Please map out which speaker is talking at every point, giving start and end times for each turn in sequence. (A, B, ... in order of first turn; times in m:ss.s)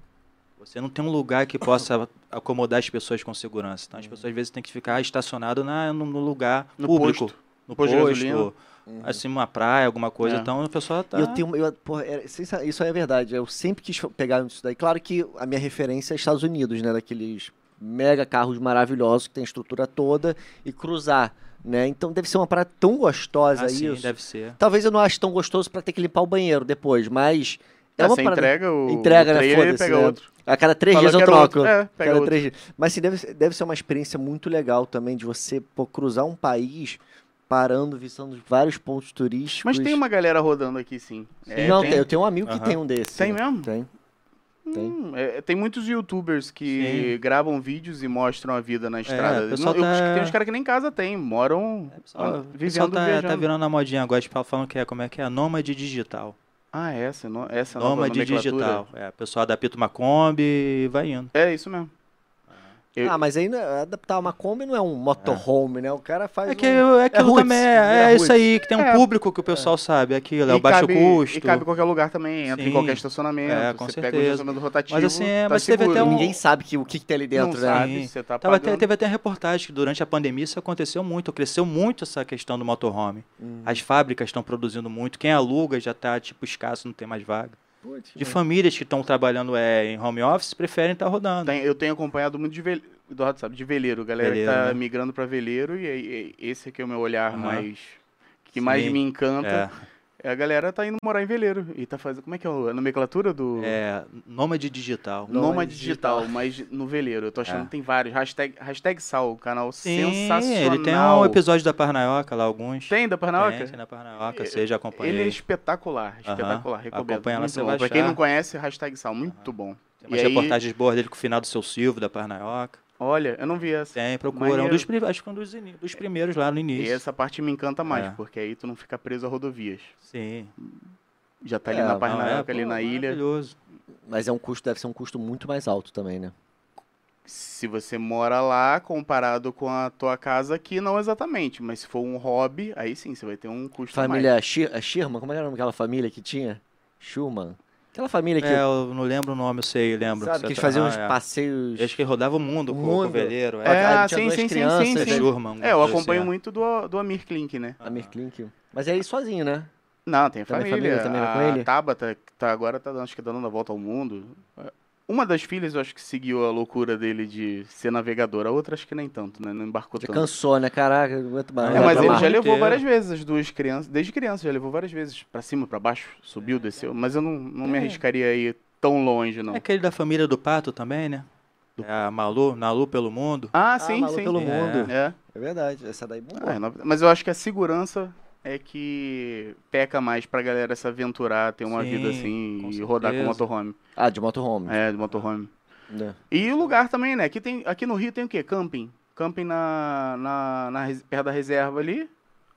0:00.6-0:11.4 A
0:04.0-0:04.2 B
0:06.8-0:08.5 C
0:08.9-0:09.2 B
0:10.2-0:10.5 C
0:11.1-0:40.0 B
0:23.6-0:24.6 A
0:28.0-0:30.3 C
0:30.9-0:32.4 C
0:39.5-0:42.0 C
0:41.5-0:42.8 A
0:41.6-0:43.9 B
0:43.1-0:43.7 C
0:44.7-0:53.5 C
0:46.7-0:47.1 A
0:49.0-0:50.3 A
0:51.9-0:56.4 A
0:56.7-0:58.8 C
0:57.8-1:01.3 A
1:01.3-1:01.9 C
1:03.0-1:08.4 B
1:05.2-1:05.4 A
1:06.4-1:11.6 A
1:08.8-1:09.1 C
1:10.5-1:16.3 C
1:12.5-1:16.3 A
1:15.9-1:17.9 B
1:17.3-1:18.9 C
1:17.7-1:27.6 A
1:23.4-1:23.8 B
1:27.8-1:28.4 B
1:28.2-1:31.5 A
1:31.4-1:39.7 C
1:34.2-1:34.8 A
1:37.3-1:37.6 A
1:38.6-1:39.8 A
1:40.2-1:43.8 C
1:43.6-1:45.3 A
1:45.3-1:46.3 B
1:45.3-1:51.4 C
1:47.4-1:47.7 A
1:49.8-1:55.4 A
1:52.9-2:00.6 C
1:56.2-1:58.2 A
2:00.0-2:02.8 A
2:03.0-2:04.9 C
2:03.9-2:07.0 A
2:06.7-2:09.9 C
2:07.9-2:08.2 A
2:10.1-2:10.5 A
2:11.4-2:13.2 C
2:11.7-2:12.1 B
2:12.0-2:13.5 A
2:14.1-2:16.3 B
2:17.2-2:24.3 C
2:23.9-2:28.6 B
2:28.4-2:31.2 A
2:30.2-2:32.0 B
2:31.8-2:34.0 A
2:32.7-2:35.3 B
2:33.6-2:37.8 C
2:34.9-2:36.3 A
2:37.8-2:38.1 A
2:37.8-2:39.7 B
2:40.0-2:50.3 C
2:40.5-2:41.7 B
2:50.0-2:52.3 B
2:51.6-2:52.8 A
2:51.7-2:59.6 C
2:57.7-2:58.0 A
2:59.5-3:01.2 A
3:01.8-3:03.5 A
3:03.5-3:05.2 C
3:03.8-3:06.6 B
3:04.3-3:04.9 A
3:06.4-3:13.8 C
3:11.7-3:13.4 A
3:14.0-3:14.8 B
3:14.7-3:15.5 C
3:15.9-3:16.2 B
3:16.3-3:22.1 C